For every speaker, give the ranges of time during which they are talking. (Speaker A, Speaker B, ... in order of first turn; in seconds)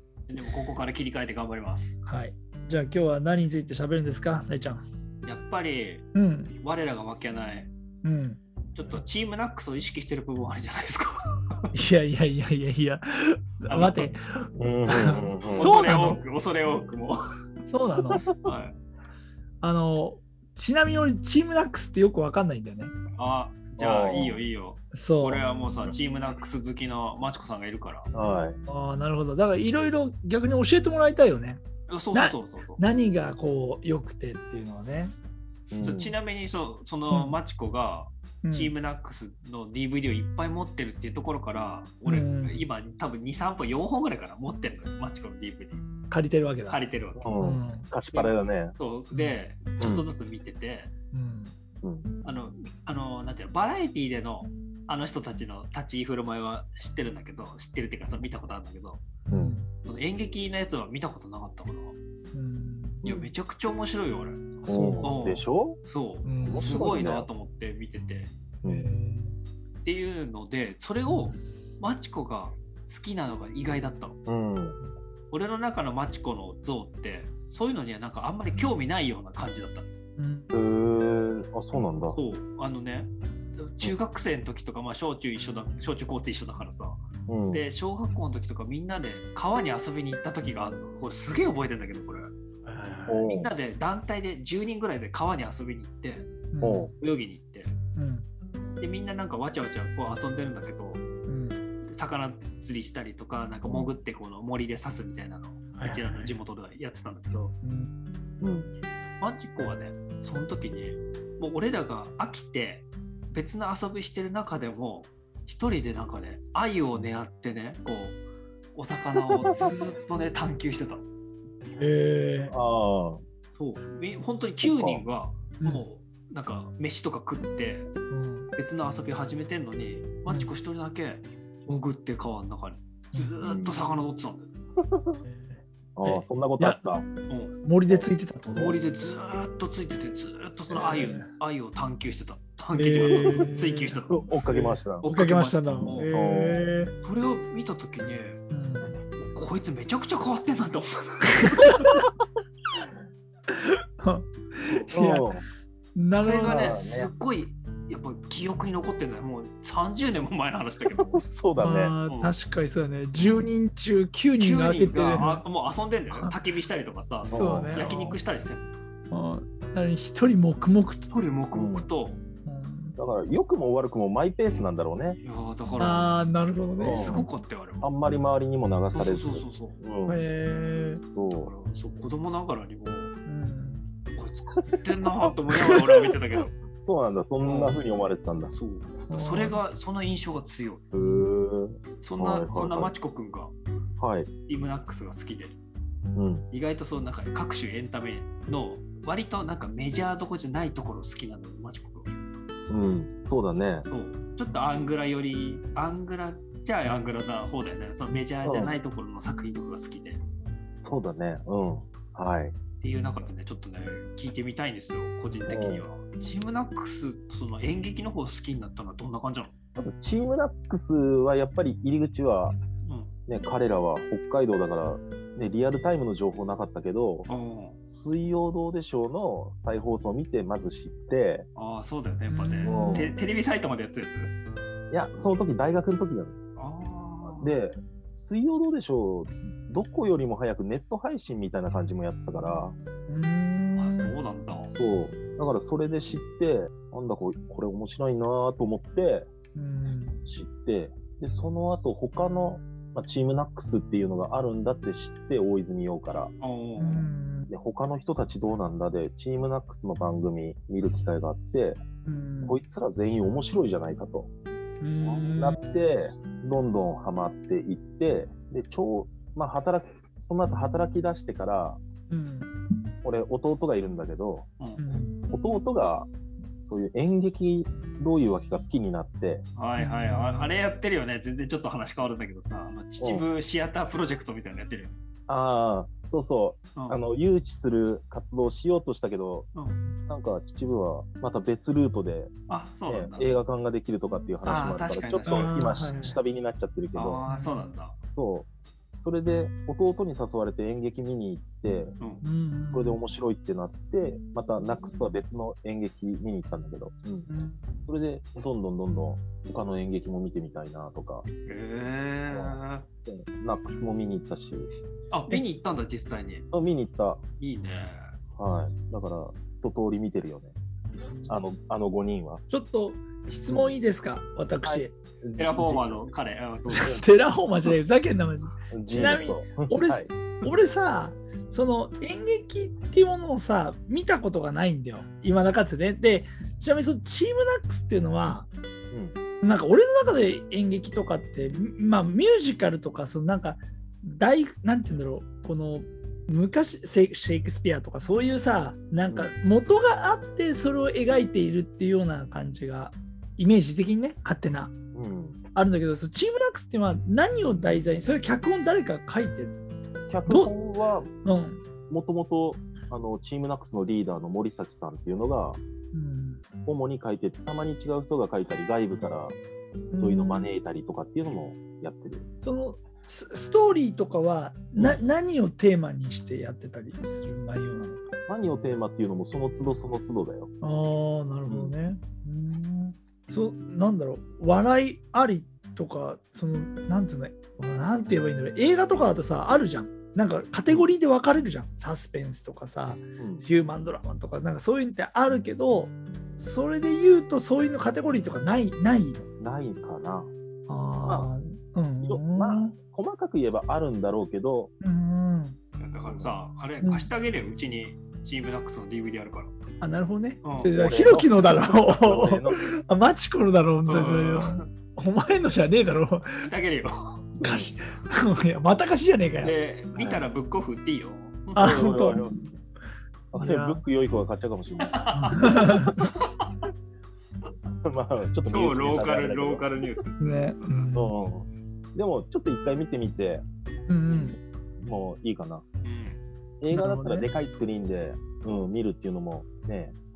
Speaker A: 0.3-2.0, 5.2-6.1, 6.6-7.7, 8.7-11.1, 13.7-14.1, 15.4-17.2, 18.4-18.7, 23.1-28.1, 31.9-32.8, 35.8-45.8, 46.7-47.3, 48.1-50.9, 52.2-59.0, 59.8-61.9, 63.0-68.3, 69.8-74.2, 75.3-79.9, 82.1-87.0, 87.5-92.3, 93.2-96.3, 97.0-97.8, 98.8-101.0, 101.9-107.5, 109.2-118.2, 118.7-121.0, 123.5-127.9, 128.6-134.5, 137.3-137.6, 138.5-144.2, 145.0-146.1, 147.0-148.4, 149.3-151.7, 156.1-161.2, 162.1-162.3, 163.1-163.4, 164.4-168.7, 171.1-172.2, 175.2-176.1, 176.8-177.9, 178.9-179.8, 181.3-183.1, 184.2-186.6, 187.4-187.8, 188.5-190.8, 192.0-193.5, 194.5-195.6, 196.5-202.1, 203.9-210.2, 212.8-219.5, 222.8-223.1, 227.3-227.8, 231.6-234.3, 236.6-237.6, 243.8-244.7, 256.4-257.1, 265.0-265.4, 279.6-284.9, 286.8-287.0, 292.5-293.3, 294.4-295.6, 296.9-297.9, 311.4-312.9, 315.1-316.4, 317.4-318.1, 325.4-327.0, 405.8-409.5, 410.4-410.7, 413.9-414.7, 416.4-417.2, 419.4-421.6, 424.8-426.5, 428.5-430.8, 435.8-436.2
Speaker B: 2.0-4.8, 6.1-6.5, 8.0-8.4, 11.7-14.2, 14.8-16.2, 17.6-18.2, 19.6-22.9, 24.9-25.4, 28.1-31.6, 32.1-35.1, 37.1-37.4, 38.4-38.7, 42.0-42.6, 46.1-46.8, 47.4-47.9, 49.1-49.4, 51.1-51.5, 59.2-59.7, 62.3-63.0, 64.6-65.1, 66.2-66.8, 68.6-69.3, 71.1-71.4, 80.2-80.5, 92.6-93.3, 96.5-96.9, 98.0-98.3, 101.2-101.6, 105.7-106.3, 107.6-107.9, 121.8-122.5, 125.6-125.8, 128.1-128.5, 130.3-130.5, 135.2-136.8, 137.6-138.8, 140.7-141.3, 142.7-146.9, 148.5-149.0, 151.4-152.0, 153.5-155.3, 155.9-156.8, 161.6-165.4, 167.3-168.2, 169.1-171.1, 172.4-172.9, 175.8-177.1, 180.1-181.0, 183.2-183.8, 189.1-189.6, 190.9-191.3, 232.3-233.2, 243.1-244.1, 249.5-250.2, 256.8-257.5, 262.0-262.6, 264.8-265.6, 272.1-272.5, 274.8-275.2, 279.8-280.6, 295.2-296.2, 297.3-297.7, 302.2-303.0, 307.3-307.6, 322.5-324.9, 326.7-338.5, 339.4-354.7, 355.5-359.6, 360.2-360.5, 361.2-361.6, 365.9-366.4, 369.9-370.5, 372.4-378.0, 380.6-399.2, 400.7-402.8, 404.8-405.6, 406.8-407.1, 409.8-416.5, 417.4-419.5, 421.5-422.3, 423.3-423.8, 425.1-426.1, 430.2-431.1, 433.9-434.4, 436.7-437.3
Speaker C: 14.6-15.7, 18.2-18.5, 23.8-24.4, 28.1-28.6, 35.7-36.2, 47.1-48.8, 51.8-52.1, 59.3-59.5, 63.0-63.3, 64.6-65.8, 66.4-67.3, 68.6-68.9, 74.2-74.8, 80.5-82.2, 87.3-87.6, 93.1-93.5, 96.6-96.9, 103.6-103.9, 108.4-108.7, 122.5-123.2, 124.6-125.0, 133.4-133.7, 134.8-135.2, 135.9-137.1, 137.9-138.1, 143.0-143.5, 144.1-145.1, 146.1-146.7, 154.7-155.4, 156.4-157.1, 161.1-161.9, 167.2-167.8, 171.5-171.9, 173.0-175.2, 176.8-177.3, 177.8-180.2, 181.1-181.5, 184.7-185.3, 186.8-188.5, 190.9-192.9, 194.0-194.3, 196.1-196.4, 202.7-203.9, 208.4-208.7, 210.8-212.5, 215.5-215.8, 219.8-222.6, 223.3-227.3, 227.9-231.5, 232.6-233.1, 234.9-236.4, 237.3-242.7, 244.7-249.3, 250.2-256.3, 257.5-261.8, 262.4-264.3, 265.4-271.8, 273.0-274.5, 275.3-276.1, 276.6-279.4, 283.0-283.2, 285.3-289.5, 290.1-292.3, 292.9-297.2, 298.1-298.5, 299.0-301.9, 302.7-307.3, 307.8-311.2, 312.3-314.7, 316.5-317.2, 318.4-320.5, 321.3-322.4, 323.5-323.8, 324.6-326.1, 328.7-330.1, 338.9-339.1, 354.9-355.4, 360.1-361.1, 361.9-365.6, 366.6-369.4, 369.9-372.2, 374.8-375.0, 378.3-380.5, 381.5-381.7, 390.7-390.9, 393.2-393.4, 399.4-400.3, 402.0-404.7, 406.0-406.3, 410.7-412.7, 417.4-417.7, 419.9-420.2, 421.6-422.4, 423.3-425.0, 427.8-429.6, 430.9-433.4, 434.1-435.6, 436.6-439.9